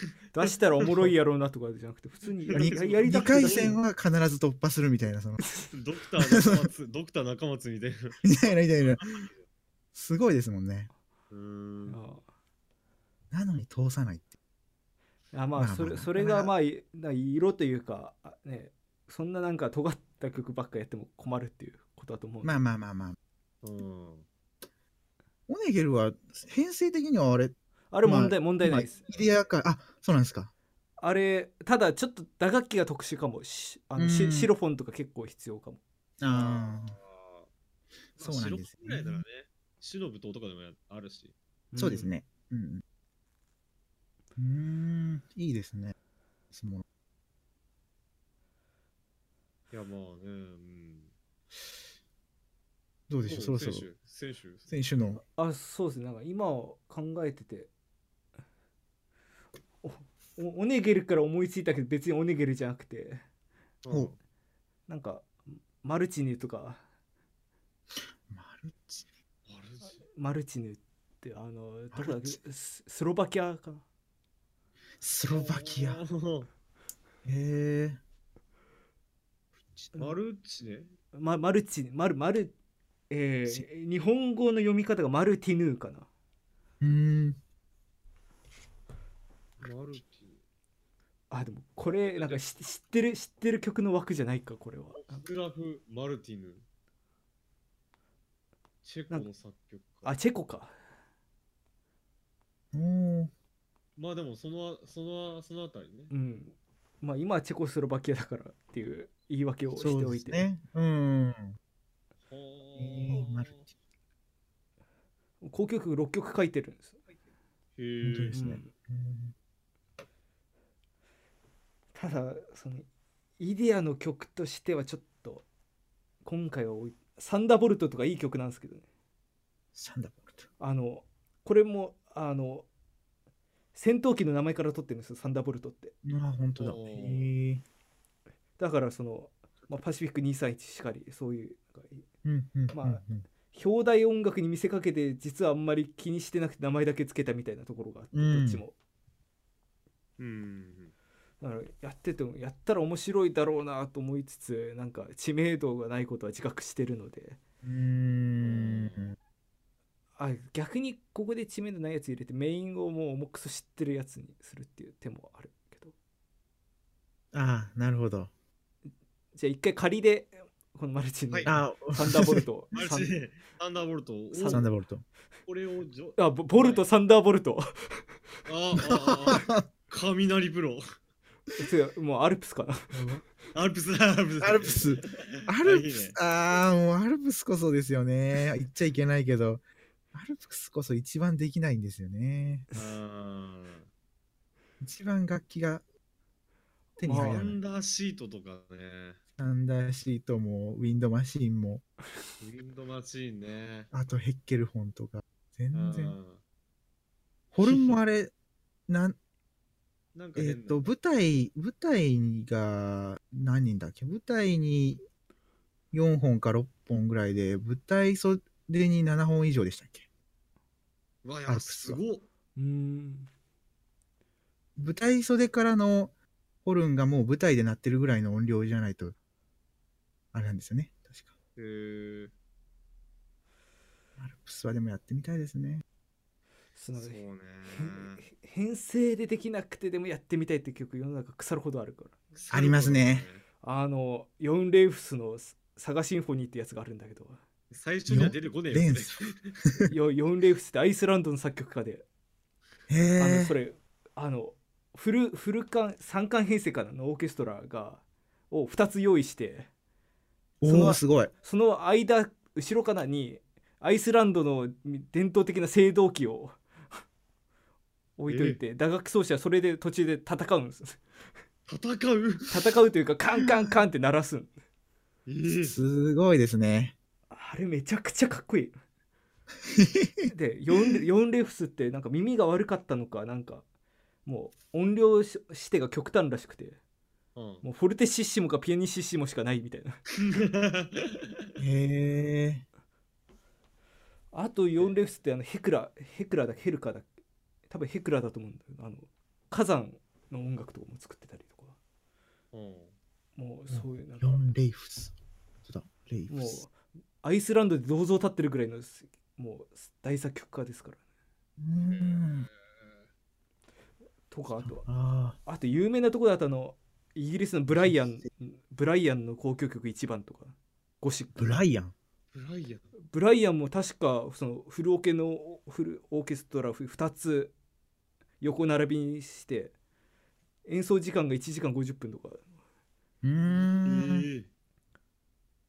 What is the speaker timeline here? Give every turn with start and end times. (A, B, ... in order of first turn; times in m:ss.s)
0:00.3-0:03.8 A
0:02.4-0:03.7 B
0:02.5-0:05.4 C
0:05.7-0:09.3 B
0:06.3-0:06.7 C
0:08.2-0:09.0 C
0:09.9-0:10.9 C
0:11.3-0:12.0 B
0:11.9-0:12.2 A
0:13.3-0:14.3 C
0:15.3-0:22.6 A
0:15.6-0:16.5 C
0:22.4-0:23.2 C
0:23.6-0:24.2 B
0:25.5-0:30.5 C
0:27.9-0:29.1 A
0:31.0-0:35.8 A
0:34.0-0:34.5 C
0:36.2-0:37.0 C
0:36.3-0:37.5 B
0:38.2-0:41.3 B
0:38.2-0:39.2 C
0:41.7-0:42.1 A
0:41.8-0:42.8 C
0:44.4-0:45.9 C
0:46.5-0:46.8 C
0:49.7-0:51.1 B
0:53.1-0:53.9 C
0:53.2-0:54.7 B
0:54.7-0:55.2 C
0:55.4-0:57.7 A
0:59.8-1:03.2 A
1:03.8-1:04.2 B
1:04.9-1:06.8 A
1:08.3-1:09.1 C
1:09.5-1:10.0 B
1:10.1-1:13.8 A
1:11.9-1:12.4 C
1:15.0-1:16.0 C
1:15.3-1:16.5 B
1:17.2-1:18.0 C
1:20.0-1:20.9 B
1:21.1-1:22.5 A
1:23.1-1:26.1 A
1:26.8-1:27.4 C
1:29.6-1:30.4 B
1:31.3-1:35.2 A
1:32.0-1:32.4 B
1:34.9-1:36.6 B
1:38.8-1:40.1 B
1:40.0-1:40.7 A
1:42.7-1:43.3 C
1:44.0-1:46.1 B
1:46.1-1:50.4 A
1:49.8-1:51.6 C
1:52.3-1:53.7 B
1:52.8-1:53.6 C
1:55.4-1:57.0 A
1:57.8-1:58.4 B
1:58.0-1:59.3 C
1:58.3-1:58.7 A
2:01.9-2:02.9 A
2:03.4-2:05.4 A
2:06.2-2:08.8 A
2:09.7-2:10.5 C
2:10.6-2:12.6 A
2:13.7-2:15.9 A
2:16.0-2:17.6 C
2:16.6-2:17.3 B
2:18.6-2:22.0 A
2:22.2-2:23.2 C
2:22.7-2:28.7 A
2:28.1-2:28.6 C
2:30.2-2:30.9 B
2:31.4-2:37.4 A
2:37.6-2:39.2 C
2:38.4-2:39.1 B
2:40.2-2:45.9 A
2:47.3-2:48.3 C
2:49.3-2:53.2 A
2:51.5-2:52.4 C
2:52.7-2:54.7 B
2:54.3-2:54.7 A
2:54.5-2:55.0 C
2:55.5-2:56.8 B
2:56.2-2:58.0 A
2:58.5-3:00.8 B
2:58.8-2:59.6 C
3:01.6-3:03.0 A
3:02.9-3:03.2 C
3:03.5-3:06.2 B
3:04.4-3:09.6 C
3:10.1-3:12.6 C
3:12.7-3:13.9 B
3:14.8-3:15.8 C
3:17.0-3:17.4 A
3:17.0-3:17.6 C
3:17.1-3:19.2 B
3:19.4-3:21.8 C
3:22.4-3:23.9 B
3:23.9-3:26.2 C
3:25.7-3:26.4 B
3:27.5-3:28.3 C
3:27.6-3:28.0 B
3:28.9-3:29.2 C
3:30.1-3:30.9 B
3:30.4-3:35.0 C
3:35.9-3:40.0 C
3:41.2-3:42.2 B
3:41.5-3:42.0 C
3:42.6-3:43.3 A
3:44.8-3:46.1 C
3:46.6-3:49.1 C
3:50.3-3:51.3 C
3:51.6-3:52.3 B
3:54.2-3:55.8 C
3:56.8-3:57.2 A
3:57.0-3:58.2 B
3:57.7-4:02.2 A
4:02.3-4:03.4 B
4:02.5-4:03.3 C
4:03.6-4:07.4 A
4:07.7-4:09.6 B
4:08.1-4:09.9 C
4:09.9-4:12.0 A
4:12.9-4:13.5 C
4:13.2-4:19.7 A
4:20.6-4:21.3 C
4:20.6-4:26.6 A
4:28.2-4:31.0 A
4:28.3-4:28.6 B
4:31.7-4:32.6 B
4:32.5-4:34.5 A
4:35.2-4:35.8 B
4:35.6-4:36.9 C
4:37.3-4:38.7 A
4:39.7-4:40.3 C
4:40.3-4:43.6 A
4:44.2-4:46.8 A
4:47.3-4:47.6 B
4:47.6-4:50.0 A
4:50.2-4:51.4 B
4:51.6-4:52.6 C
4:54.3-4:57.1 A
4:57.7-5:01.8 A
5:02.5-5:02.9 B
5:03.4-5:04.5 A
5:03.7-5:05.1 C
5:05.6-5:06.6 C
5:06.3-5:11.0 A
5:11.6-5:12.5 C
5:11.9-5:13.0 B
5:14.3-5:14.8 A
5:14.6-5:15.4 C
5:15.4-5:21.6 A
5:17.7-5:18.2 C
5:21.4-5:21.9 C
5:22.3-5:22.9 B
5:23.1-5:27.5 A
5:28.4-5:29.7 A
5:30.6-5:32.4 A
5:33.2-5:34.3 C
5:33.5-5:34.5 B